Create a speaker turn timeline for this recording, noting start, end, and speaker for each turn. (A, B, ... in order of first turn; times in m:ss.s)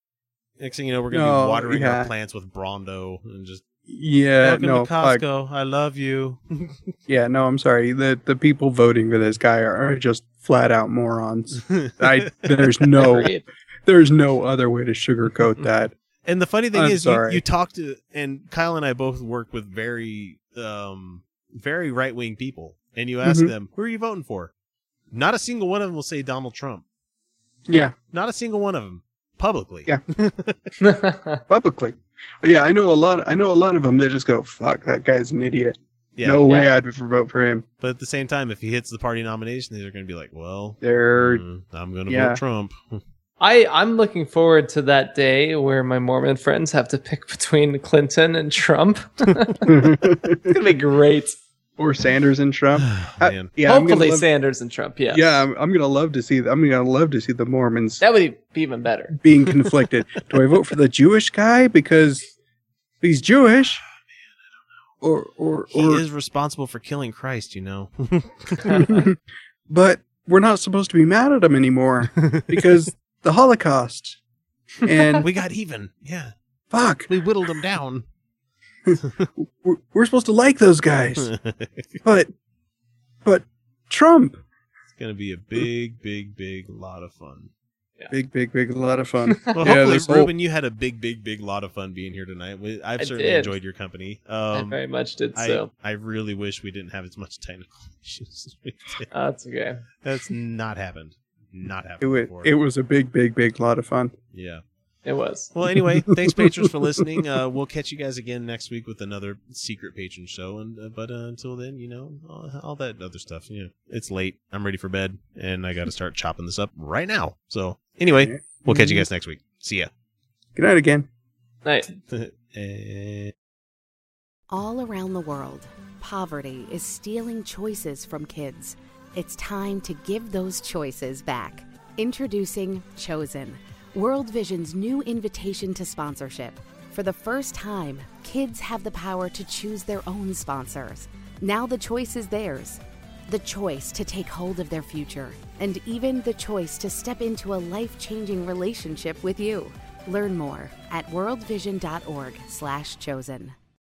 0:00.6-0:03.6 A
0:01.1-0:02.1 B
0:03.9-0:05.2 B
0:04.4-0:06.9 A
0:07.1-0:13.3 B
0:11.6-0:13.2 A
0:13.0-0:13.4 C
0:13.9-0:15.9 B
0:16.3-0:24.5 A
0:16.7-0:17.4 B
0:23.2-0:23.5 B
0:25.1-0:26.8 A
0:27.7-0:27.9 B
0:28.1-0:30.7 A
0:30.8-0:31.4 C
0:31.5-0:37.6 B
0:36.2-0:36.5 A
0:37.8-0:43.0 A
0:40.8-0:41.4 B
0:42.1-0:42.4 B
0:43.4-0:49.7 C
0:49.7-0:50.6 B
0:50.5-0:51.4 C
0:51.8-0:54.3 B
0:52.8-0:53.5 A
0:53.6-0:55.2 C
0:55.1-0:58.0 B
0:58.0-0:59.2 C
0:59.2-1:02.3 B
1:03.0-1:03.8 B
1:05.0-1:06.0 B
1:05.7-1:09.0 A
1:08.7-1:09.2 B
1:09.7-1:14.2 B
1:12.2-1:12.7 A
1:14.8-1:15.3 B
1:15.2-1:16.3 A
1:16.7-1:17.1 B
1:17.1-1:18.0 A
1:18.9-1:21.3 B
1:21.2-1:22.0 A
1:22.0-1:22.3 B
1:23.2-1:24.4 B
1:25.0-1:27.5 A
1:28.1-1:30.3 B
1:29.6-1:34.8 A
1:33.0-1:33.6 C
1:34.5-1:35.7 C
1:35.4-1:39.1 A
1:39.1-1:39.8 C
1:40.0-1:42.5 A
1:42.0-1:44.1 B
1:44.3-1:44.6 A
1:45.1-1:45.5 C
1:45.5-1:59.9 A
1:45.8-1:46.7 B
1:58.1-1:59.0 B
2:00.6-2:01.1 B
2:01.6-2:01.9 C
2:02.1-2:03.3 A
2:04.5-2:33.6 D